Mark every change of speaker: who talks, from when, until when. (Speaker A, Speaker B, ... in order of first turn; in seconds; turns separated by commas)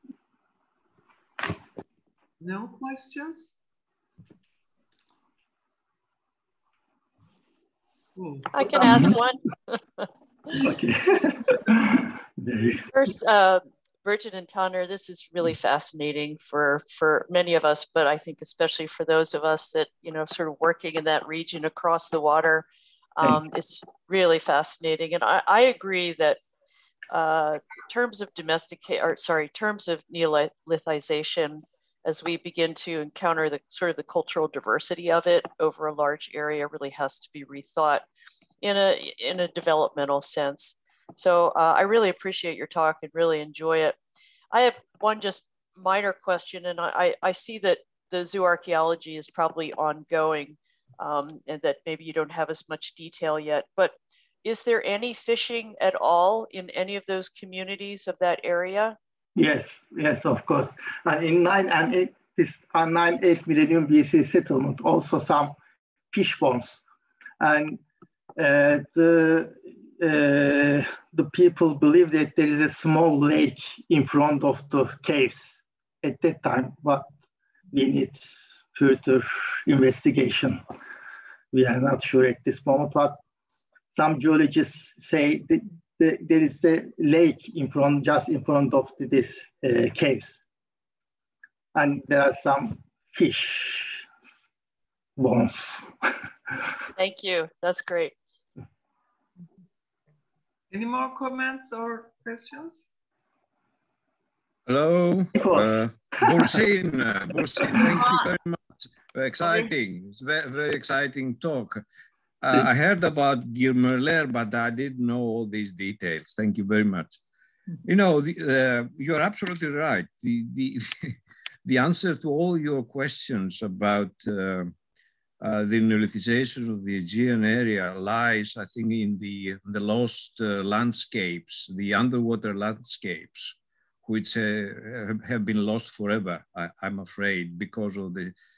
Speaker A: 2.4-3.5, Speaker A: 8.2-8.5, Speaker B: 8.5-10.0, Speaker C: 8.7-9.2, Speaker C: 10.6-12.8, Speaker B: 12.9-22.6, Speaker B: 23.2-26.4, Speaker B: 27.1-38.0, Speaker B: 38.6-44.0, Speaker B: 44.5-59.0, Speaker C: 59.4-65.5, Speaker C: 66.1-66.8, Speaker C: 67.4-67.8, Speaker C: 68.4-77.1, Speaker C: 77.7-80.6, Speaker C: 81.5-83.2, Speaker C: 83.9-90.4, Speaker C: 91.7-94.1, Speaker C: 95.2-95.9, Speaker B: 97.0-98.2, Speaker A: 100.7-102.8, Speaker D: 104.7-111.8, Speaker C: 105.3-106.4, Speaker D: 112.4-117.2, Speaker D: 117.8-124.7, Speaker D: 125.4-138.3